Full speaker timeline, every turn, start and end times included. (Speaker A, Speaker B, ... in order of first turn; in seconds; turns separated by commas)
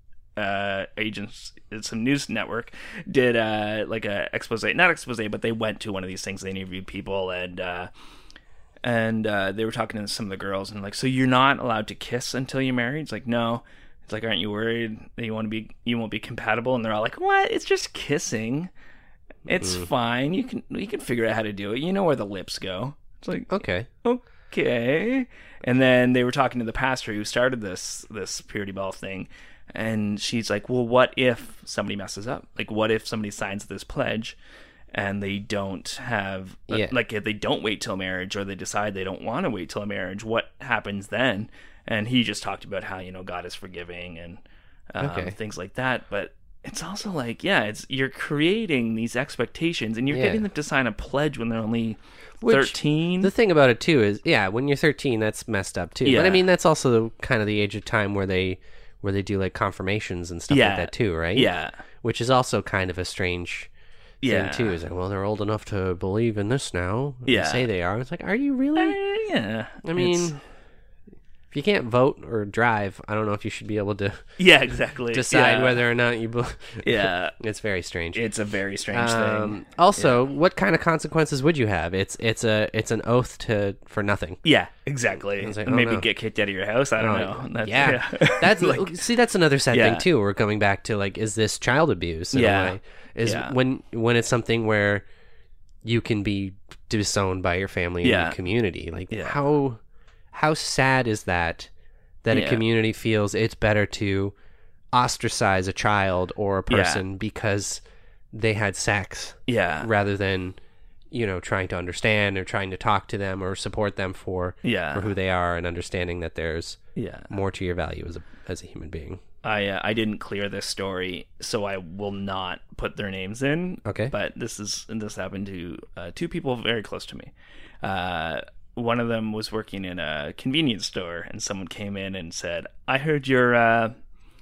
Speaker A: 0.4-7.9, Speaker A: 8.8-18.7, Speaker A: 19.5-23.5, Speaker B: 19.6-19.9, Speaker B: 23.5-23.9, Speaker A: 24.0-34.4, Speaker A: 34.9-53.3, Speaker B: 36.7-37.0, Speaker B: 45.0-45.4, Speaker B: 50.1-50.4, Speaker B: 52.4-61.5, Speaker A: 56.0-56.5, Speaker A: 60.5-61.8, Speaker B: 62.0-63.7, Speaker A: 64.2-64.8, Speaker B: 64.2-69.0, Speaker A: 67.3-67.7, Speaker A: 68.8-70.4, Speaker B: 69.8-70.4, Speaker B: 71.5-74.2, Speaker A: 74.4-75.8, Speaker B: 75.1-78.2, Speaker A: 76.8-77.4, Speaker A: 78.1-80.2, Speaker B: 78.9-84.4, Speaker A: 84.4-89.0, Speaker B: 85.4-86.1, Speaker B: 87.0-95.0, Speaker A: 89.7-90.1, Speaker A: 92.3-93.5, Speaker B: 95.8-99.8, Speaker A: 98.0-98.4, Speaker A: 99.1-99.4, Speaker B: 100.3-101.7, Speaker B: 102.2-104.3, Speaker A: 102.3-102.6, Speaker B: 104.9-110.6, Speaker A: 106.7-107.0, Speaker A: 109.5-109.9, Speaker B: 111.1-116.8, Speaker A: 114.6-115.1, Speaker A: 117.0-117.3, Speaker B: 117.3-119.2, Speaker A: 119.4-133.9, Speaker B: 123.8-124.1